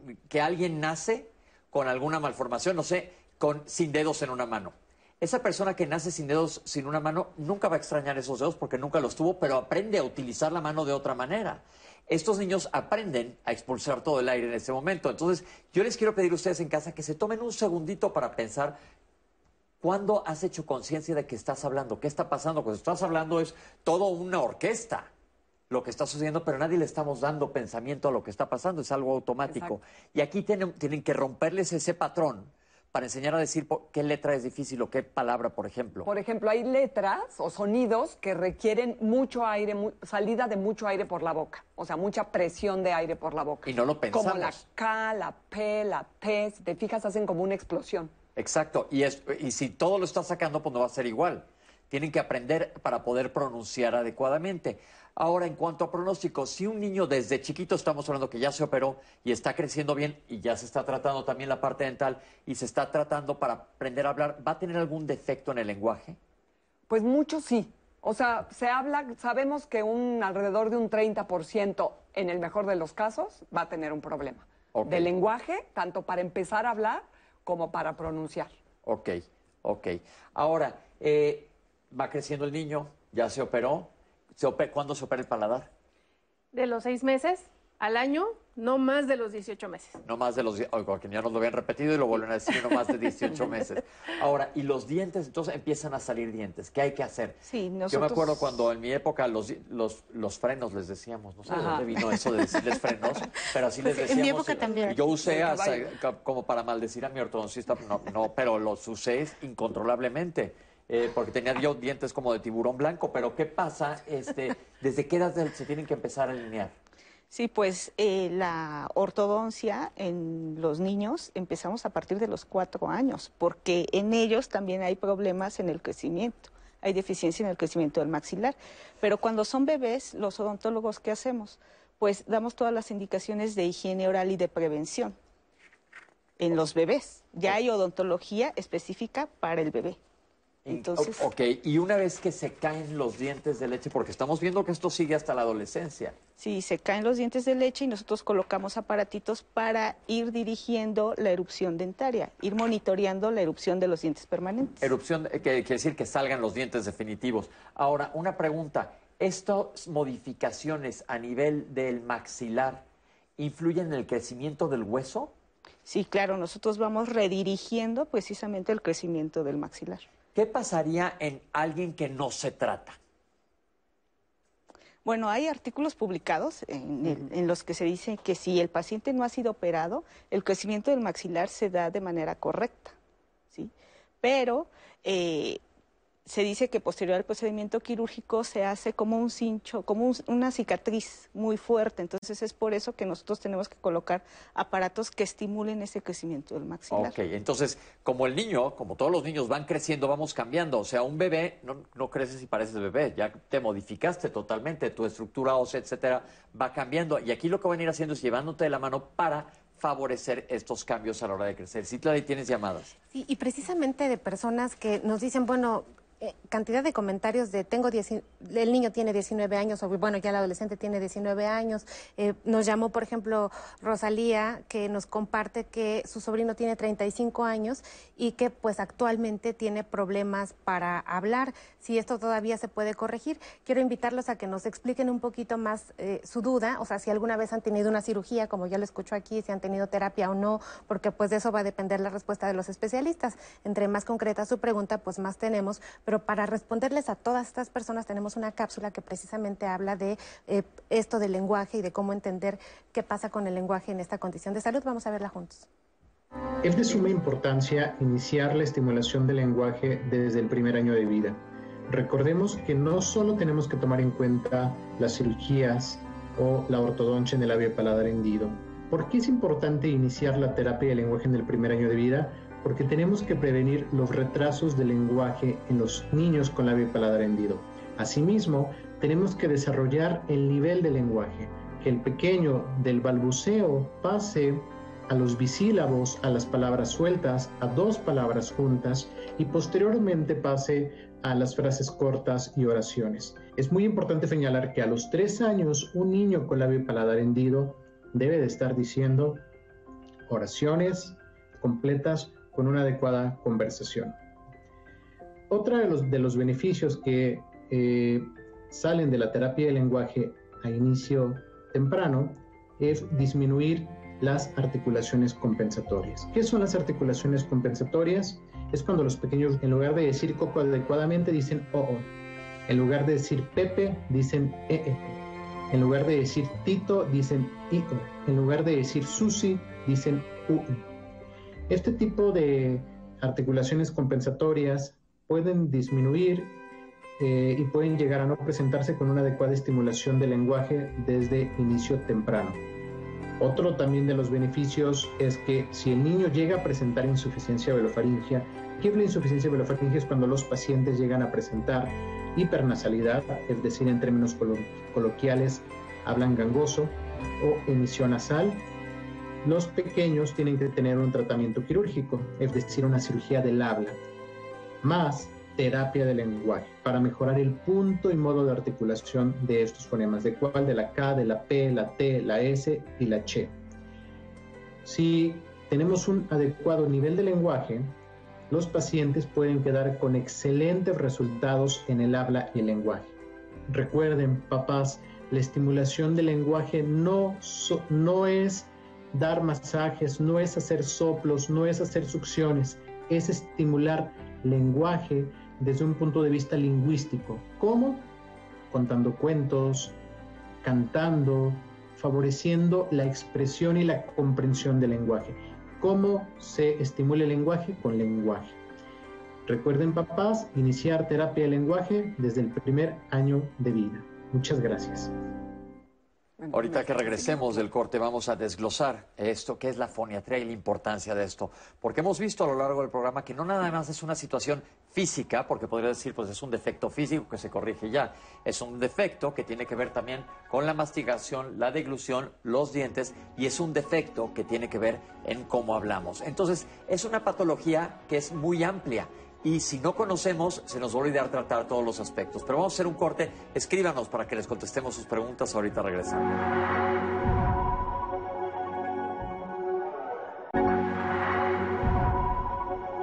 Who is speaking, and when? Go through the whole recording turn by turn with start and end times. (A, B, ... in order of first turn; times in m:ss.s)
0:00.3-0:18.8 A
0:19.8-0:25.1 A
0:25.7-0:36.1 A
0:29.5-0:29.8 B
0:36.0-0:48.1 B
0:43.6-0:44.6 A
0:48.4-1:06.2 A
1:06.9-1:18.5 B
1:14.7-1:15.1 A
1:18.8-1:25.7 A
1:26.5-1:30.0 C
1:30.0-1:56.7 A
1:37.5-1:38.4 D
1:41.5-1:41.9 B
1:43.8-1:45.0 E
1:45.2-1:45.8 B
1:57.3-2:15.2 D
2:16.4-2:20.0 D
2:20.6-2:26.2 A
2:20.7-2:21.3 D
2:26.4-2:34.9 D
2:34.8-2:42.8 A
2:43.4-2:45.3 A
2:45.9-2:50.1 D
2:50.4-2:53.0 A
2:55.0-3:03.0 D
3:03.5-3:05.6 D
3:06.3-3:17.2 D
3:16.9-3:32.9 A
3:33.1-4:15.7 E
4:16.6-4:59.5 F
5:00.3-5:04.2 F
5:05.5-5:22.1 F
5:22.7-5:25.2 F
5:25.7-5:30.8 F
5:31.7-5:36.6 F
5:37.2-5:42.6 F
5:43.4-5:58.7 F
5:59.4-6:04.0 F
6:04.8-6:13.6 F
6:14.8-6:18.0 F
6:18.5-6:23.2 F
6:23.7-6:38.1 F
6:38.7-6:40.0 F
6:40.6-6:48.6 F
6:49.5-6:55.1 F
6:56.4-6:57.4 B
6:56.5-7:26.3 A